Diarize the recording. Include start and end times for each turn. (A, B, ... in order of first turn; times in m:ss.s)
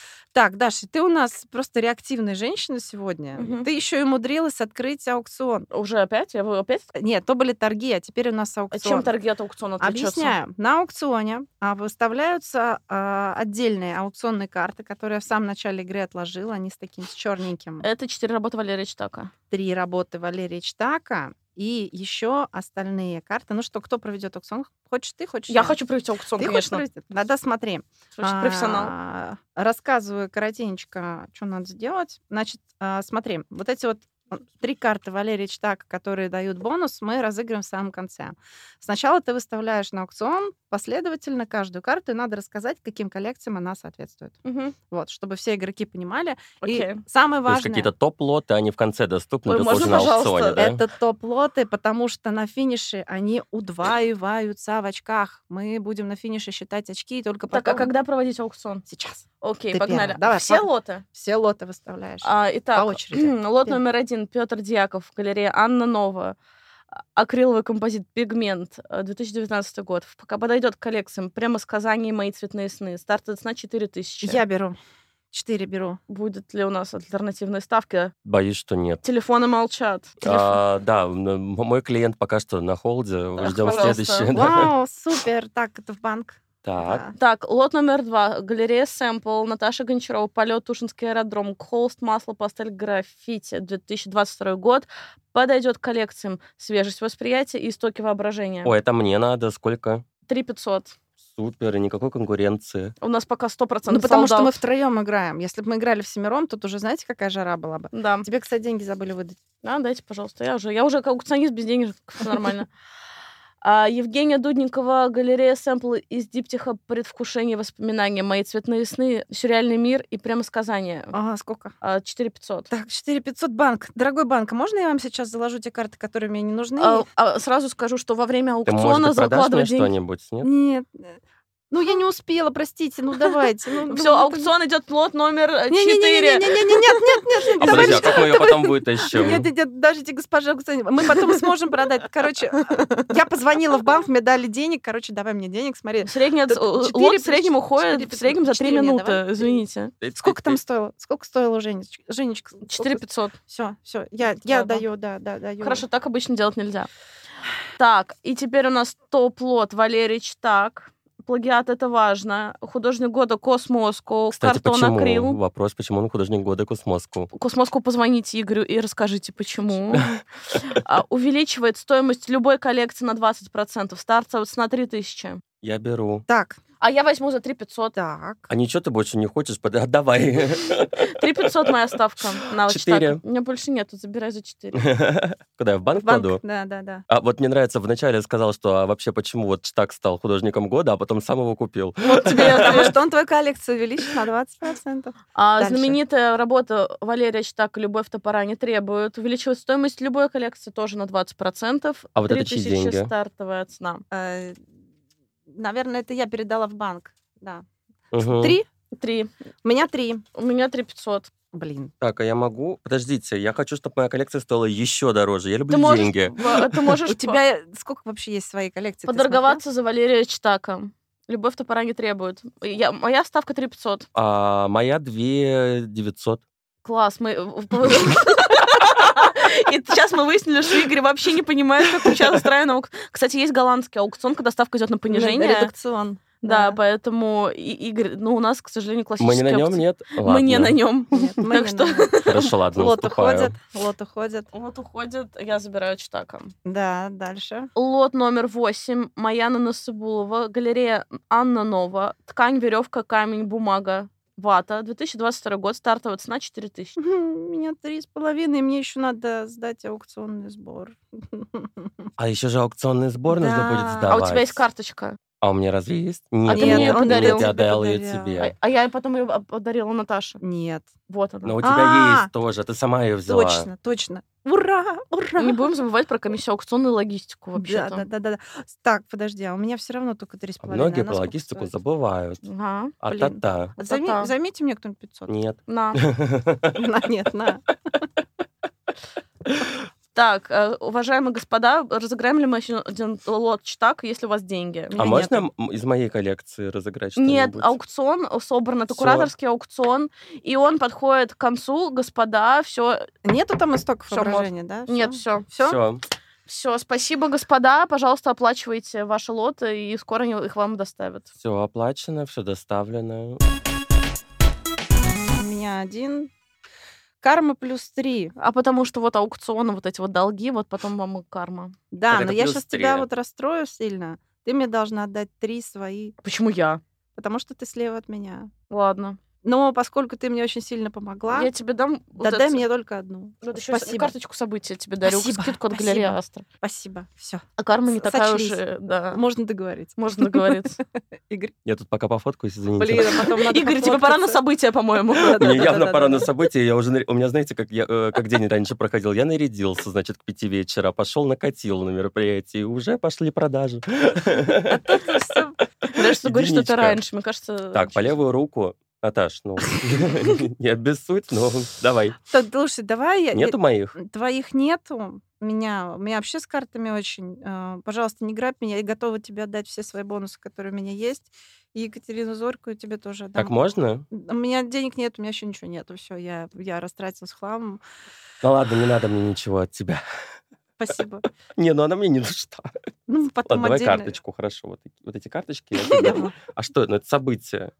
0:00.3-0:05.7 A
0:03.4-0:03.7 B
0:05.7-0:06.9 B
0:06.9-0:09.1 A
0:08.7-0:10.4 B
0:09.8-0:17.9 A
0:17.8-0:19.3 B
0:19.5-0:25.8 A
0:25.5-0:26.8 B
0:26.4-0:47.9 A
0:28.2-0:28.9 B
0:44.4-0:44.8 B
0:46.6-0:47.0 B
0:47.5-0:50.8 C
0:49.5-0:50.6 B
0:50.6-0:57.9 A
0:57.5-0:58.8 B
0:58.9-1:03.8 A
0:59.4-1:01.0 B
1:02.2-1:06.4 B
1:07.2-1:14.4 B
1:14.2-1:14.8 A
1:15.3-1:16.0 A
1:16.1-1:18.1 B
1:18.2-1:19.0 C
1:19.0-1:20.6 B
1:20.2-1:24.7 C
1:23.4-1:24.3 B
1:23.7-1:27.1 A
1:26.6-1:27.0 C
1:27.2-1:38.7 B
1:38.6-1:40.0 C
1:40.3-1:41.0 B
1:41.2-1:43.0 C
1:43.0-1:44.5 B
1:43.9-1:49.4 A
1:47.9-1:48.3 B
1:49.6-1:52.7 B
1:53.6-2:01.1 B
2:01.1-2:01.8 A
2:01.8-2:02.7 B
2:02.7-2:07.0 A
2:06.8-2:09.9 B
2:08.7-2:10.5 C
2:10.4-2:14.5 A
2:13.9-2:18.4 B
2:15.7-2:29.6 A
2:17.6-2:19.5 C
2:26.0-2:29.9 B
2:30.0-2:30.6 C
2:30.2-2:35.8 A
2:32.7-2:33.4 B
2:34.4-2:34.8 B
2:35.6-2:36.9 B
2:37.8-2:45.4 B
2:44.3-2:47.3 C
2:47.3-2:55.4 B
2:55.6-2:56.3 C
2:56.3-2:56.6 A
2:56.8-2:58.0 B
2:58.0-2:58.5 A
2:58.5-3:01.5 C
3:00.9-3:04.9 B
3:02.6-3:03.2 C
3:04.8-3:06.4 C
3:06.0-3:07.0 A
3:07.1-3:12.9 C
3:12.0-3:13.0 B
3:12.3-3:16.0 A
3:15.4-3:24.0 B
3:22.2-3:23.1 C
3:24.1-3:24.6 A
3:25.5-3:27.6 A
3:28.1-3:28.6 C
3:28.2-3:28.7 A
3:28.9-3:29.3 B
3:29.6-3:30.2 A
3:30.4-3:31.3 B
3:31.5-3:31.9 A
3:32.0-3:36.7 C
3:35.7-3:37.4 B
3:37.1-3:39.6 A
3:39.1-3:44.1 B
3:44.1-3:46.4 C
3:46.8-3:55.7 B
3:55.1-3:56.8 A
3:56.4-4:02.5 B
3:59.2-4:00.8 C
4:01.1-4:04.5 A
4:02.3-4:03.5 C
4:04.5-4:06.5 B
4:06.6-4:07.7 A
4:07.8-4:17.0 B
4:17.0-4:22.1 A
4:22.2-4:24.6 C
4:23.3-4:24.2 A
4:24.1-4:25.2 B
4:25.4-4:28.5 C
4:26.5-4:27.5 B
4:26.5-4:28.4 A
4:28.4-4:30.4 B
4:30.4-4:30.9 A
4:31.1-4:31.6 B
4:31.4-4:33.7 C
4:31.6-4:32.3 A
4:33.3-4:35.6 A
4:35.4-4:38.0 B
4:37.6-4:41.7 A
4:40.6-4:42.4 C
4:42.4-4:43.0 B
4:43.0-4:43.8 C
4:43.0-4:45.3 A
4:43.8-4:44.3 B
4:45.3-4:46.8 C
4:45.7-4:46.0 B
4:46.8-4:47.7 A
4:50.2-4:55.0 B
4:54.9-4:55.5 A
4:55.0-4:57.7 C
4:57.2-5:03.1 B
4:58.9-4:59.3 C
5:03.2-5:05.8 A
5:04.1-5:05.5 B
5:05.6-5:06.0 C
5:06.5-5:11.3 B
5:11.4-5:13.4 C
5:15.4-5:16.3 A
5:17.2-5:18.3 A
5:18.4-5:21.7 B
5:21.9-5:26.2 A
5:22.1-5:23.1 C
5:26.2-5:26.8 B
5:27.2-5:28.5 A
5:28.7-5:29.2 B
5:29.4-5:31.5 A
5:31.3-5:32.6 B
5:32.2-5:34.1 A
5:33.4-5:36.5 B
5:35.0-5:38.6 A
5:37.6-5:39.2 B
5:39.1-5:40.6 A
5:40.0-5:40.8 B
5:41.3-5:41.5 A
5:41.6-5:43.2 C
5:42.8-5:44.4 A
5:43.1-5:45.6 B
5:45.2-5:46.3 A
5:45.2-5:55.1 C
5:54.7-5:55.6 A
5:55.8-5:57.0 C
5:55.9-5:58.0 B
5:57.7-6:02.2 C
6:02.3-6:13.6 A
6:03.3-6:04.0 C
6:13.4-6:14.1 C
6:14.1-6:17.8 A
6:18.4-6:20.0 C
6:20.8-6:21.2 A
6:21.6-6:22.7 C
6:23.1-6:24.2 A
6:23.5-6:27.7 C
6:25.8-6:26.4 A